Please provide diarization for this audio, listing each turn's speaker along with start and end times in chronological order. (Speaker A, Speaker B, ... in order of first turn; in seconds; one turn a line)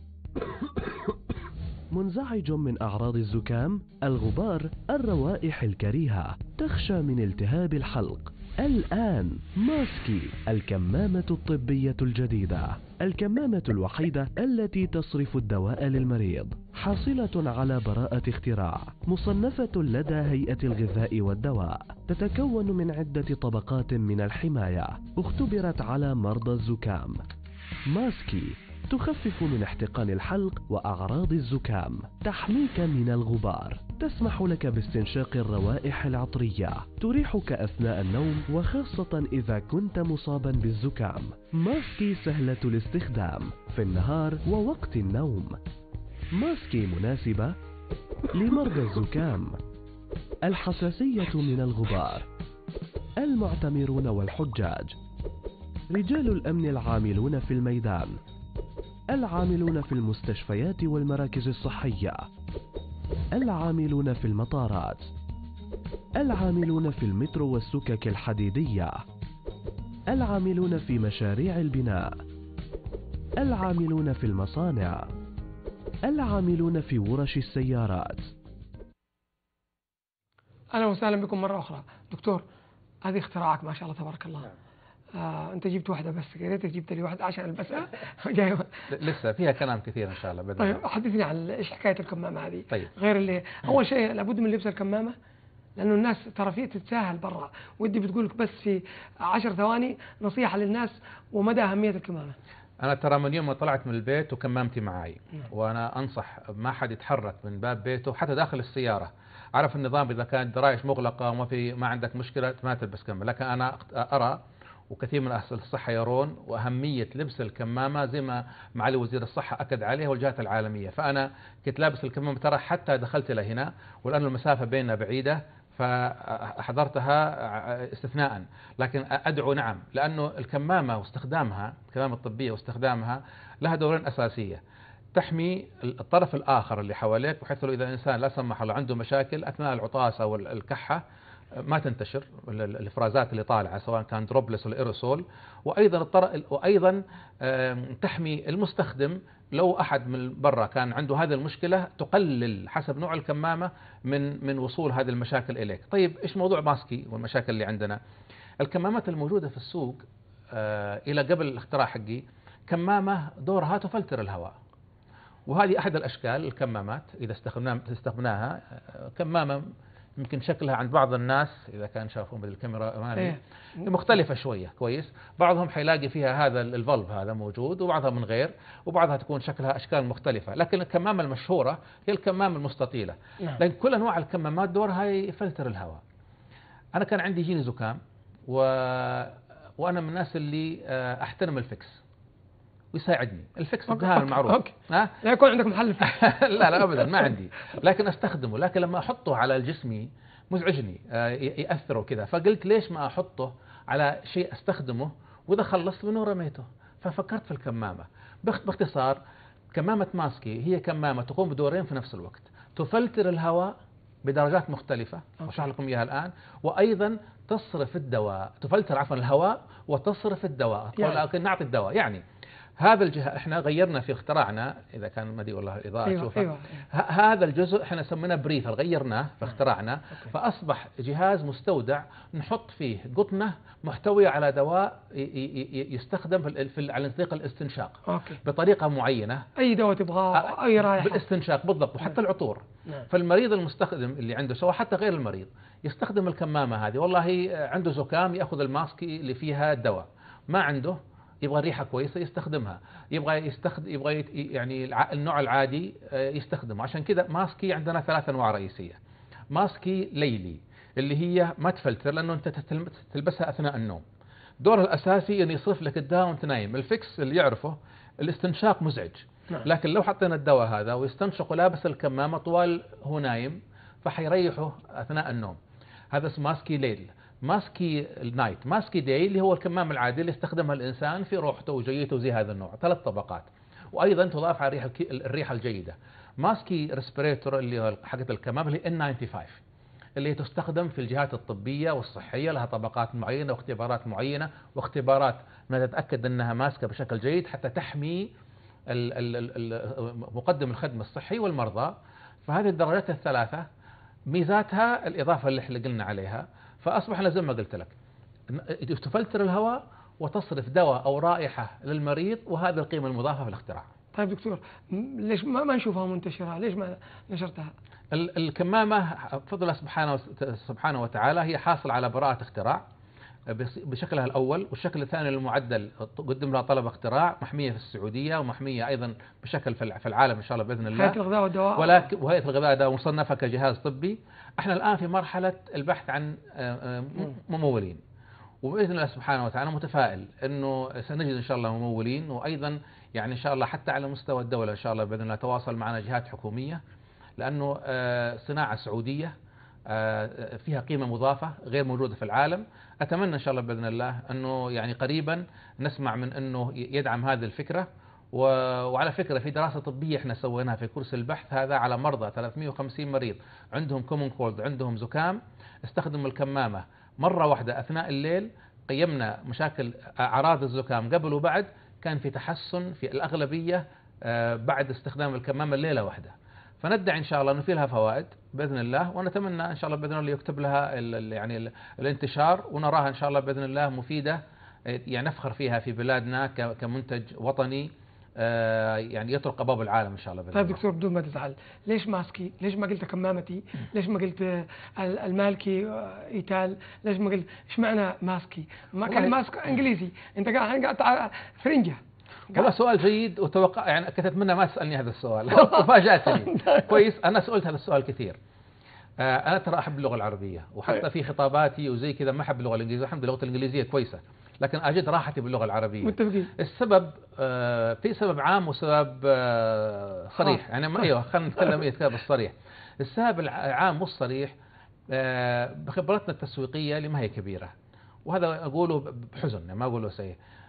Speaker A: 1.9-27.2
Speaker A: 27.9-45.6
Speaker A: 46.3-47.5
Speaker A: 48.3-49.6
Speaker A: 50.4-52.3
Speaker A: 53.2-55.0
Speaker A: 55.9-58.2
Speaker A: 59.1-62.3
Speaker A: 63.3-65.1
Speaker A: 66.2-69.0
Speaker A: 70.1-72.2
Speaker A: 73.4-75.1
Speaker A: 76.0-78.3
Speaker B: 80.7-82.4
Speaker B: 83.0-84.5
Speaker B: 85.1-88.8
Speaker C: 88.9-90.8
Speaker B: 90.6-95.1
Speaker B: 95.8-102.3
Speaker C: 102.8-114.4
Speaker C: 114.9-134.6
Speaker C: 135.1-141.0
Speaker C: 141.6-158.0
Speaker C: 158.6-164.6
Speaker C: 165.5-186.0
Speaker B: 173.2-173.8
Speaker C: 186.9-192.0
Speaker C: 192.9-195.1
Speaker B: 193.9-197.2
Speaker C: 196.0-209.2
Speaker C: 209.7-213.7
Speaker C: 214.2-222.2
Speaker C: 222.8-239.4
Speaker B: 226.0-226.8
Speaker B: 238.1-238.4
Speaker B: 239.6-241.2
Speaker C: 240.3-259.0
Speaker C: 259.5-264.0
Speaker C: 264.6-275.6
Speaker C: 276.1-289.6
Speaker C: 290.2-298.3
Speaker C: 298.9-303.6
Speaker C: 304.3-307.9
Speaker C: 308.5-313.9
Speaker B: 314.1-317.7
Speaker C: 318.1-322.8
Speaker C: 323.5-331.2
Speaker B: 330.9-332.1
Speaker C: 331.7-338.0
Speaker C: 338.6-346.8
Speaker C: 347.4-349.3
Speaker C: 349.9-390.8
Speaker B: 390.5-402.0
Speaker C: 399.1-399.3
Speaker C: 402.5-408.4
Speaker B: 405.6-407.0
Speaker C: 409.2-424.5
Speaker B: 416.0-416.5
Speaker C: 425.1-427.7
Speaker C: 428.2-430.4